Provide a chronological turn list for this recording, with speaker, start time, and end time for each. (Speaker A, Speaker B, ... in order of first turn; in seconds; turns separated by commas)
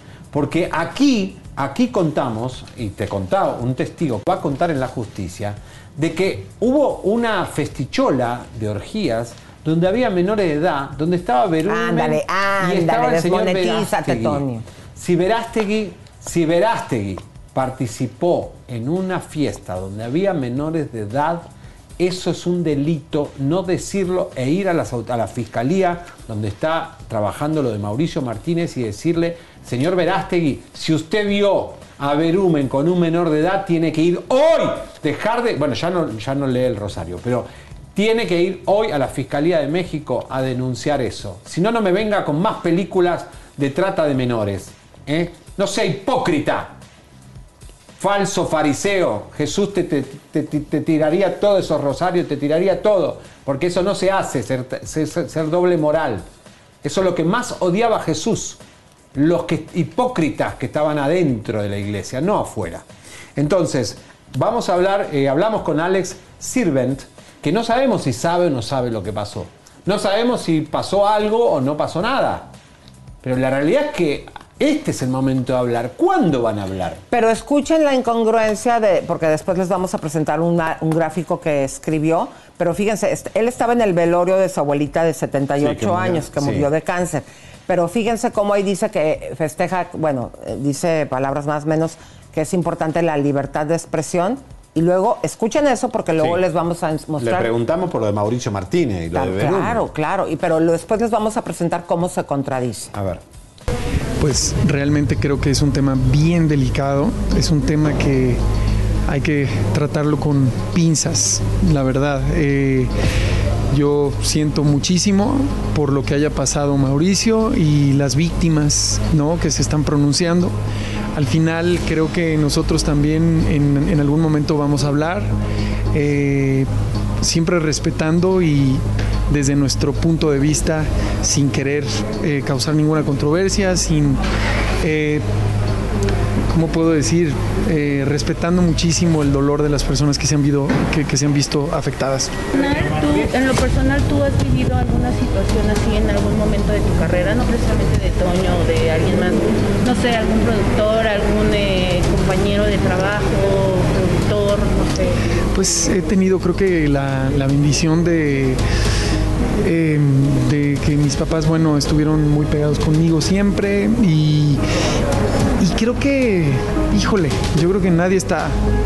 Speaker A: 0.3-46.7, Speaker B: 11.7-14.6, Speaker A: 48.0-56.2, Speaker A: 56.8-58.6, Speaker A: 59.1-72.5, Speaker A: 73.2-77.0, Speaker B: 77.1-97.5, Speaker A: 85.6-86.7, Speaker A: 96.2-96.4, Speaker A: 97.2-99.8, Speaker B: 99.1-102.9, Speaker A: 102.9-103.2, Speaker C: 104.2-108.4, Speaker C: 109.1-112.9, Speaker C: 113.7-120.5, Speaker C: 121.1-125.3, Speaker C: 125.9-126.7, Speaker C: 127.2-134.2, Speaker C: 134.8-135.2, Speaker C: 136.5-142.3, Speaker D: 142.5-155.2, Speaker C: 155.5-158.6, Speaker C: 159.6-164.6, Speaker C: 165.6-168.6